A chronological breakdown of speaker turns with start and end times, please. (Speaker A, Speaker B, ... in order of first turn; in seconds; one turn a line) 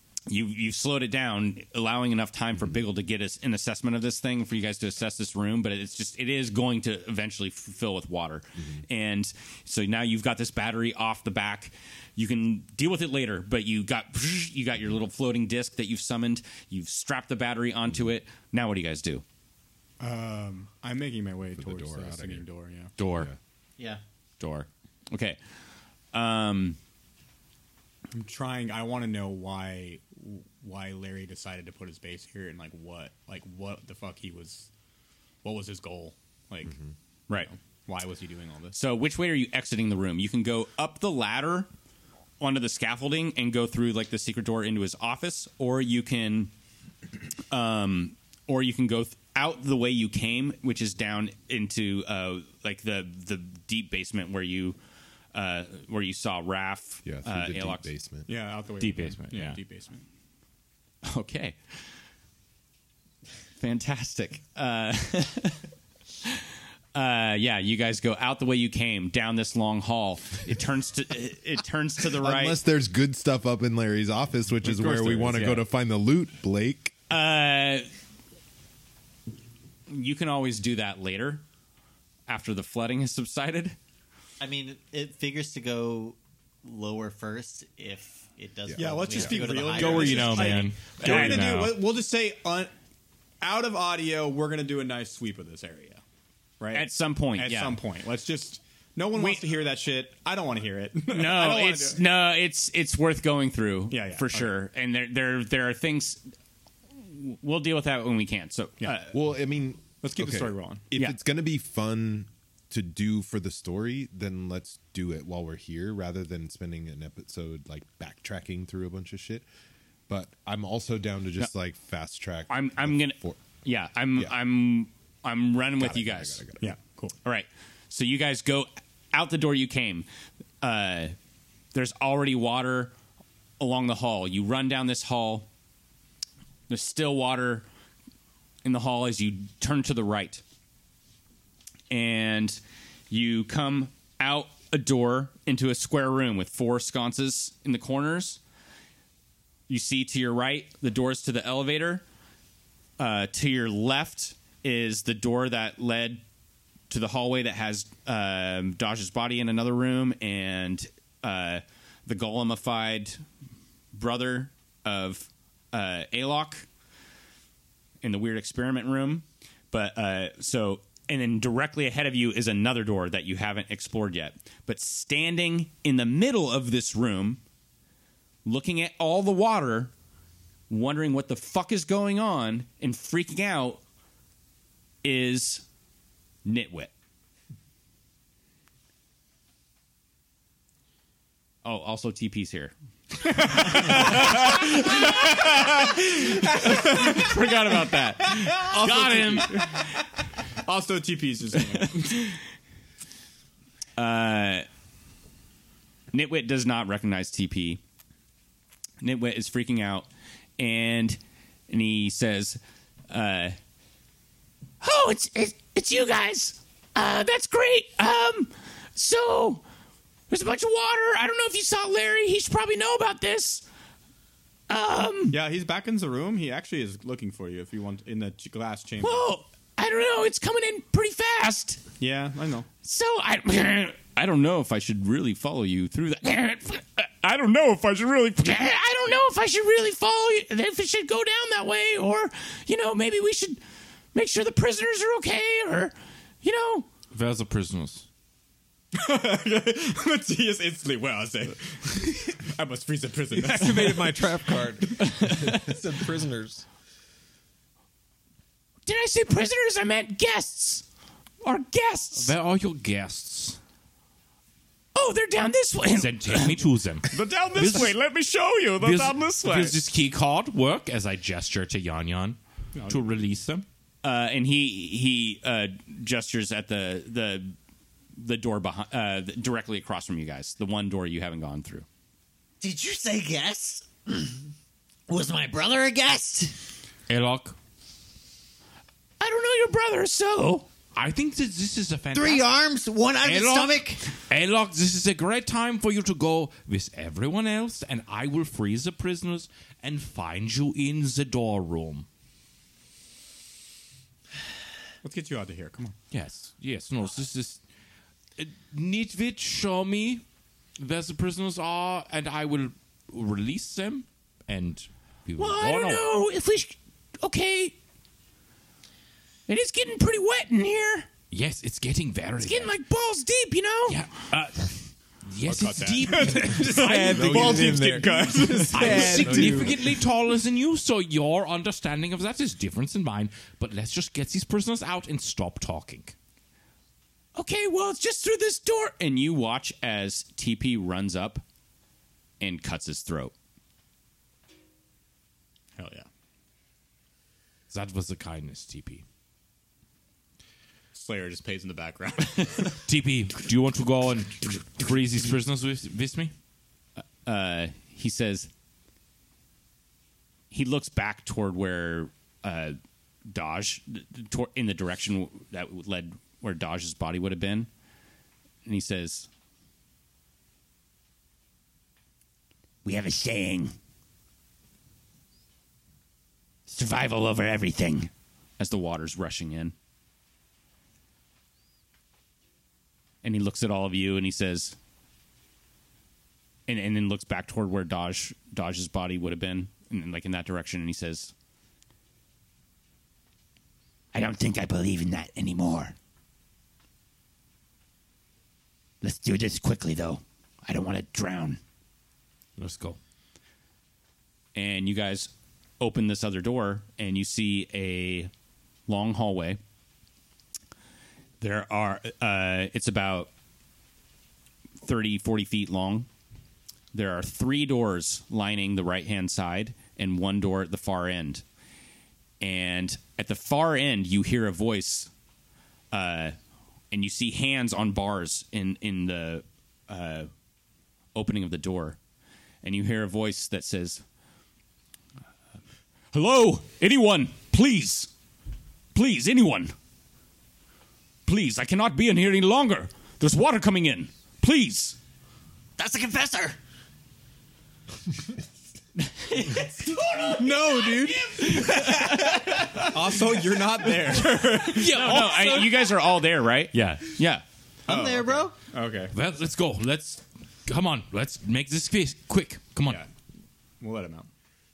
Speaker A: 0.3-19.2
Speaker B: 8.6-8.8
Speaker C: 20.0-22.9
Speaker B: 21.6-22.5
Speaker D: 23.0-23.3
Speaker B: 23.1-23.4
Speaker D: 24.4-24.7
Speaker A: 25.1-25.4
Speaker A: 26.1-26.8
Speaker C: 28.1-34.7
Speaker C: 35.4-36.8
Speaker C: 37.3-38.8
Speaker A: 38.7-41.7
Speaker A: 42.4-46.5
Speaker A: 47.5-54.8
Speaker A: 55.3-57.9
Speaker B: 57.0-58.3
Speaker C: 58.3-60.0
Speaker D: 58.8-59.6
Speaker A: 61.0-61.6
Speaker A: 63.6-65.6
Speaker A: 66.9-72.6
Speaker B: 72.1-76.9
Speaker D: 74.6-75.6
Speaker A: 77.1-77.9
Speaker A: 79.9-81.4
Speaker A: 82.3-83.8
Speaker E: 84.4-90.7
Speaker B: 88.7-89.4
Speaker C: 88.7-92.7
Speaker D: 89.7-91.8
Speaker A: 91.0-91.5
Speaker C: 93.4-96.0
Speaker C: 96.6-102.0
Speaker A: 96.7-97.8
Speaker A: 99.2-99.4
Speaker A: 101.1-106.2
Speaker C: 103.9-104.5
Speaker A: 107.0-109.1
Speaker B: 109.1-119.5
Speaker C: 110.0-110.9
Speaker B: 120.1-123.4
Speaker A: 122.5-126.5
Speaker B: 125.8-126.8
Speaker C: 126.6-127.2
Speaker A: 127.2-130.1
Speaker A: 130.6-131.2
Speaker A: 131.7-132.9
Speaker A: 133.6-135.5
Speaker A: 136.7-137.7
Speaker A: 138.6-140.4
Speaker A: 141.9-148.4
Speaker A: 149.7-152.0
Speaker A: 153.0-156.2
Speaker A: 156.9-163.2
Speaker A: 163.9-166.7
Speaker A: 168.0-177.4
Speaker A: 178.4-179.9
Speaker A: 180.7-183.8
Speaker A: 185.0-185.7
Speaker A: 186.4-186.9
Speaker A: 191.6-192.7
Speaker C: 193.2-200.0
Speaker A: 193.3-199.9
Speaker D: 198.5-199.8
Speaker C: 200.6-202.4
Speaker A: 201.7-202.4
Speaker A: 204.0-204.7
Speaker A: 206.1-207.8
Speaker A: 209.0-213.6
Speaker A: 214.8-219.6
Speaker A: 220.3-223.7
Speaker A: 224.7-225.4
Speaker C: 225.3-229.3
Speaker A: 229.0-231.8
Speaker C: 232.0-232.7
Speaker A: 232.8-243.6
Speaker A: 244.1-246.9
Speaker D: 247.1-248.1
Speaker C: 248.9-255.2
Speaker F: 253.3-256.7
Speaker A: 255.0-255.6
Speaker A: 258.9-260.9
Speaker A: 261.4-262.3
Speaker D: 262.2-263.6
Speaker A: 264.9-266.6
Speaker D: 265.9-267.9
Speaker A: 267.1-269.8
Speaker C: 267.2-268.2
Speaker C: 268.8-269.5
Speaker D: 268.8-273.7
Speaker C: 272.8-273.2
Speaker A: 274.0-277.6
Speaker A: 278.2-281.9
Speaker E: 282.6-284.4
Speaker E: 285.1-286.5
Speaker D: 287.1-287.6
Speaker A: 289.2-290.7
Speaker D: 290.9-292.5
Speaker E: 292.1-294.0
Speaker D: 293.2-302.1
Speaker G: 293.4-293.6
Speaker C: 305.0-306.0
Speaker D: 306.1-307.6
Speaker D: 308.4-310.2
Speaker D: 310.8-316.1
Speaker A: 315.4-317.8
Speaker A: 319.5-321.1
Speaker D: 321.3-322.8
Speaker A: 322.4-324.0
Speaker D: 323.9-327.9
Speaker C: 325.4-329.4
Speaker F: 326.7-329.9
Speaker B: 327.1-329.8
Speaker D: 328.7-336.1
Speaker A: 337.4-341.4
Speaker A: 342.4-343.3
Speaker C: 345.8-346.1
Speaker D: 347.7-349.0
Speaker C: 350.9-352.8
Speaker D: 352.8-356.3
Speaker A: 357.0-358.5
Speaker A: 360.5-367.7
Speaker A: 368.6-369.3
Speaker A: 372.9-373.8
Speaker A: 376.7-379.7
Speaker A: 383.2-384.8
Speaker A: 386.7-391.3
Speaker A: 394.1-395.9
Speaker A: 399.0-401.6
Speaker D: 402.6-403.0
Speaker A: 404.6-408.3
Speaker A: 408.9-409.6
Speaker A: 411.4-413.3
Speaker A: 414.8-416.1
Speaker A: 416.9-421.4
Speaker A: 422.4-425.1
Speaker A: 425.9-426.4
Speaker A: 426.9-430.3
Speaker A: 431.1-432.0
Speaker A: 432.6-434.0
Speaker A: 436.1-438.1
Speaker A: 438.9-439.7
Speaker A: 441.3-445.0
Speaker G: 445.8-446.5
Speaker A: 449.0-449.8
Speaker C: 450.3-455.4
Speaker G: 450.4-451.5
Speaker A: 451.6-452.3
Speaker D: 454.7-456.2
Speaker A: 454.8-457.4
Speaker D: 456.7-457.2
Speaker E: 457.9-458.5
Speaker C: 457.9-459.1
Speaker D: 459.1-463.0
Speaker C: 463.8-464.3